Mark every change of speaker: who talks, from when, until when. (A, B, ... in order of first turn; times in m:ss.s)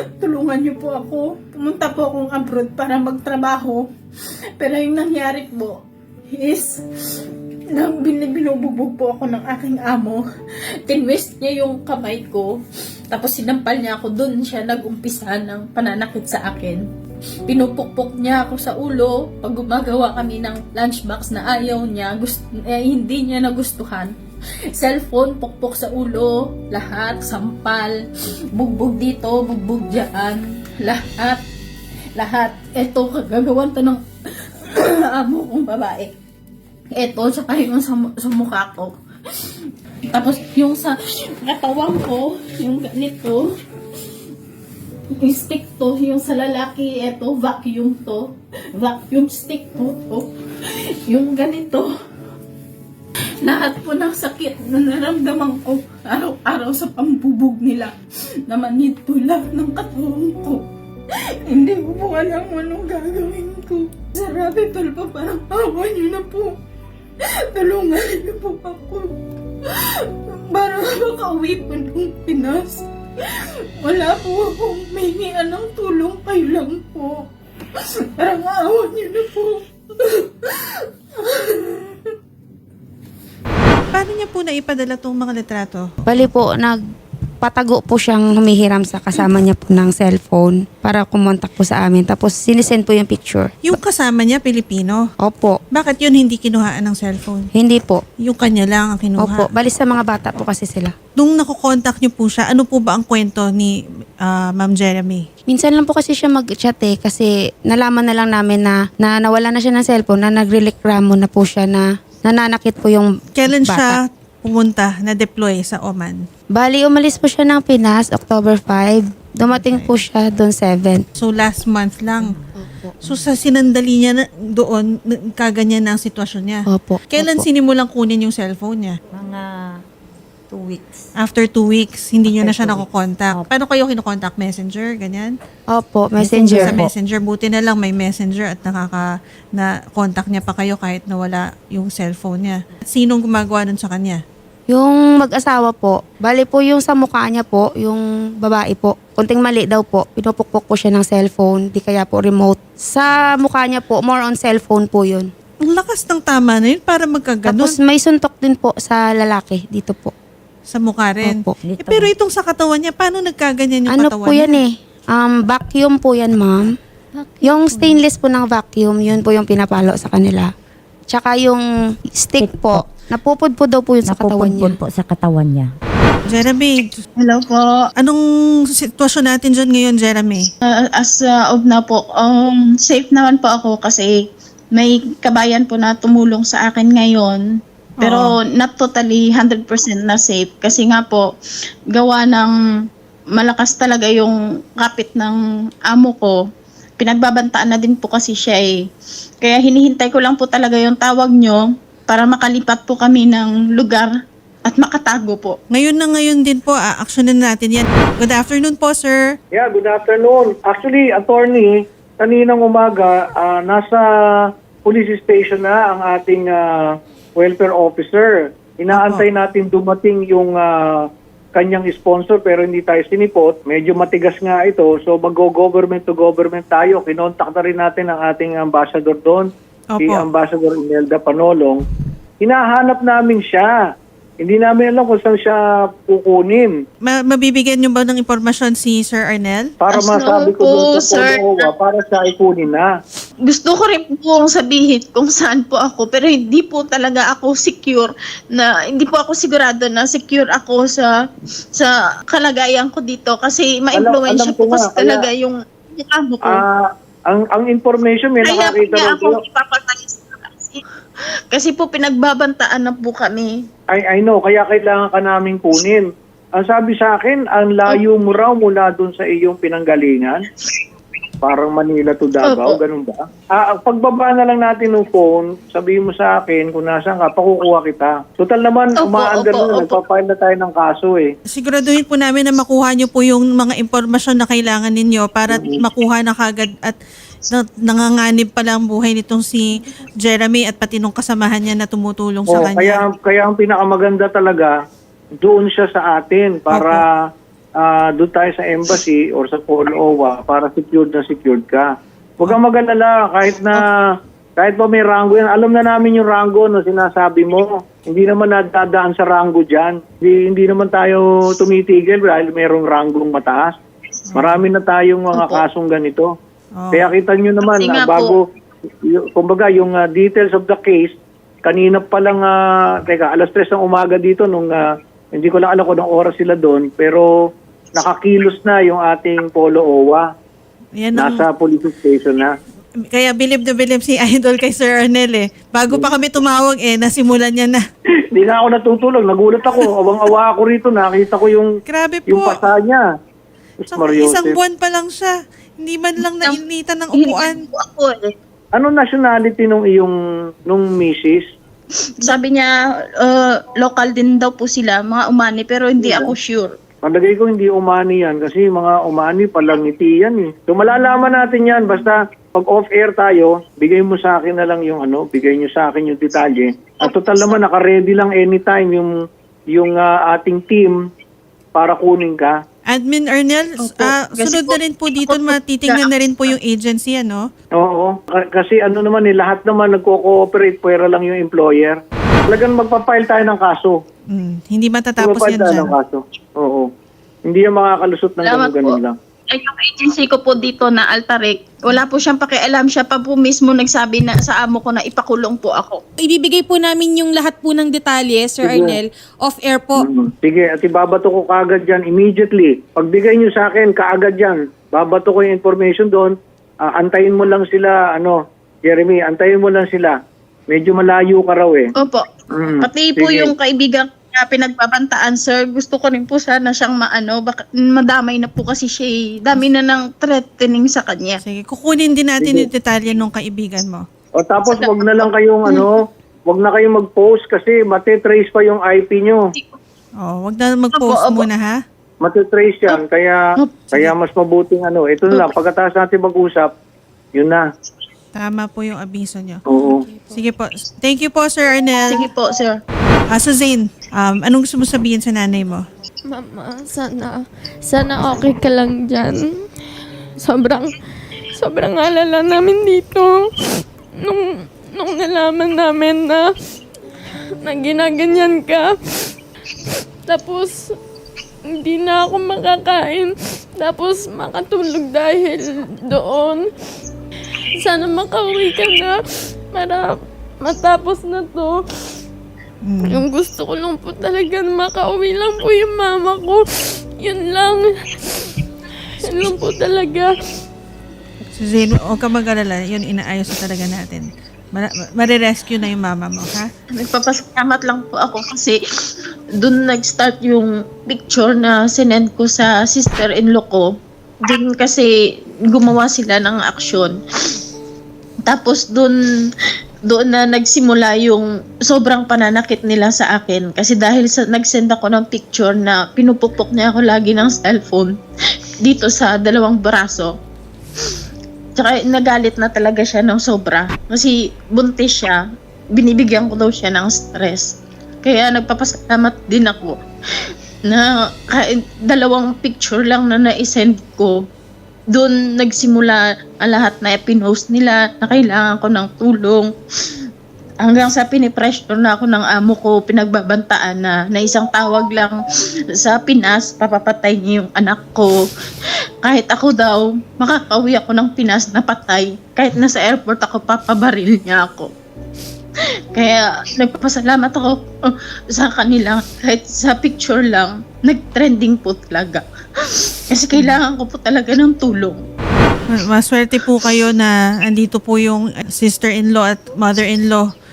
0:00.2-0:03.8 A
0:04.6-0:05.8 A
0:06.3-0:06.8 A
0:07.7-0:10.2 A
0:10.9-0:12.6 A
0:13.1-0:16.8 A
0:17.5-0:24.1 A
0:24.7-0:28.0 A
0:28.5-0:31.4 A
0:32.2-0:34.0 A
0:34.6-0:36.1 A
0:37.0-0:38.9 A
0:40.1-0:43.5 A
0:45.2-0:50.3 A
0:51.0-0:51.9 A
0:53.4-0:57.9 A
0:58.5-1:00.6 A
1:01.4-1:06.6 A
1:07.5-1:09.1 A
1:09.6-1:17.2 A
1:17.8-1:22.0 A
1:23.9-1:25.9 B
1:26.1-1:26.8 C
1:27.4-1:33.5 C
1:33.6-1:35.0 B
1:35.2-1:35.6 C
1:35.7-1:37.5 B
1:37.6-1:38.0 C
1:38.2-1:39.5 B
1:39.2-1:40.9 C
1:41.2-1:45.2 B
1:45.5-1:54.0 C
1:53.4-1:56.2 B
1:56.5-2:01.0 C
1:59.6-2:00.0 B
2:01.2-2:02.4 B
2:02.2-2:02.4 D
2:02.6-2:03.0 C
2:03.0-2:08.9 B
2:06.7-2:07.4 C
2:09.1-2:09.5 D
2:10.5-2:11.0 D
2:11.2-2:15.3 B
2:12.2-2:13.5 D
2:15.7-2:16.8 C
2:16.2-2:16.9 D
2:16.5-2:24.2 B
2:24.7-2:35.3 C
2:35.6-2:37.8 B
2:37.4-2:40.1 C
2:40.7-2:44.6 B
2:41.2-2:41.5 C
2:41.6-2:42.1 D
2:43.9-2:46.7 C
2:47.4-2:50.5 C
2:51.1-2:51.6 C
2:52.2-2:54.8 C
2:52.4-2:52.8 D
2:54.0-2:55.7 D
2:56.3-2:57.0 B
2:57.2-2:57.7 A
2:58.8-3:00.4 B
3:00.7-3:04.1 A
3:04.7-3:07.4 A
3:08.0-3:08.2 B
3:08.0-3:11.3 A
3:11.9-3:12.5 A
3:13.3-3:16.4 A
3:17.0-3:18.7 A
3:19.4-3:24.1 A
3:24.6-3:25.6 A
3:25.7-3:29.2 B
3:29.5-3:34.0 E
3:34.8-3:36.6 E
3:37.4-3:40.7 E
3:38.9-3:39.3 B
3:41.5-3:49.5 E
3:49.9-3:50.2 B
3:50.0-3:51.8 E
3:52.4-3:53.7 E
3:54.4-3:56.7 E
3:57.0-3:59.7 B
3:59.8-4:02.9 E
3:59.9-4:01.6 A
4:03.4-4:11.1 A
4:11.7-4:16.6 A
4:13.9-4:15.2 E
4:16.5-4:19.4 E
4:18.4-4:20.8 A
4:21.5-4:23.5 A
4:23.9-4:26.1 E
4:26.6-4:30.4 E
4:31.4-4:41.3 E
4:32.4-4:32.8 A
4:39.0-4:40.0 A
4:41.5-4:47.0 B
4:45.5-4:45.8 E
4:47.5-4:53.0 B
4:52.5-4:54.7 E
4:55.4-4:57.1 E
4:56.7-4:57.0 B
4:57.8-5:01.9 E
5:02.4-5:03.9 E
5:04.6-5:13.7 E
5:14.3-5:14.6 B
5:14.3-5:16.3 E
5:15.3-5:15.6 A
5:16.7-5:17.1 B
5:16.9-5:18.4 E
5:17.6-5:18.3 A
5:19.0-5:21.1 E
5:21.6-5:24.8 E
5:25.3-5:27.2 E
5:27.9-5:30.2 E
5:31.0-5:31.4 B
5:31.1-5:32.5 E
5:33.1-5:37.8 B
5:38.3-5:41.7 E
5:41.9-5:42.6 B
5:42.3-5:43.0 E
5:43.9-5:47.6 B
5:43.9-5:44.6 E
5:47.1-5:48.3 A
5:48.7-5:50.1 E
5:50.7-5:51.4 E
5:52.2-5:56.7 A
5:56.0-5:56.3 E
5:57.0-6:09.1 E
6:07.0-6:07.5 A
6:09.7-6:11.0 E
6:11.7-6:12.5 E
6:12.8-6:17.4 B
6:13.8-6:16.1 A
6:17.8-6:22.0 E
6:22.5-6:24.0 E
6:24.3-6:25.9 B
6:25.2-6:26.9 E
6:27.5-6:29.1 E
6:28.4-6:29.0 A
6:29.5-6:36.0 A
6:36.2-6:40.1 F
6:38.6-6:39.0 E
6:40.0-6:50.2 E
6:50.7-6:51.9 E
6:52.0-6:52.2 A
6:52.5-6:53.5 E
6:52.8-7:01.4 A
7:01.4-7:04.0 B
7:02.4-7:02.7 E
7:04.4-7:09.4 E
7:04.7-7:05.9 A
7:10.2-7:11.8 B
7:10.9-7:11.4 A
7:12.2-7:13.4 E
7:13.6-7:14.1 A
7:13.9-7:16.7 E
7:17.3-7:17.6 E
7:18.3-7:19.6 B
7:19.7-7:20.0 E
7:20.3-7:22.3 B
7:22.1-7:22.8 A
7:23.3-7:25.8 B
7:26.3-7:29.4 G
7:30.4-7:30.9 G
7:31.6-7:33.3 G
7:34.9-7:36.4 G
7:37.6-7:38.9 G
7:40.3-7:40.7 G
7:41.8-7:46.6 G
7:47.8-7:49.2 G
7:49.7-7:51.8 G
7:52.8-7:53.2 B
7:53.0-7:56.6 G
7:57.2-7:58.6 G
7:59.2-7:59.5 B
7:59.2-8:00.3 G
8:01.6-8:06.7 B
8:06.9-8:08.8 A
8:09.6-8:13.9 A
8:14.4-8:15.1 A
8:15.7-8:17.2 A
8:18.4-8:19.2 A
8:20.1-8:28.1 A
8:28.8-8:30.3 A
8:31.8-8:35.4 A
8:35.9-8:40.0 A
8:40.9-8:44.4 A
8:45.1-8:49.7 A
8:50.8-8:55.4 A
8:56.0-8:58.3 A
8:59.2-9:04.9 A
9:06.1-9:07.8 A
9:08.5-9:12.4 A
9:13.3-9:15.2 A
9:15.9-9:20.4 B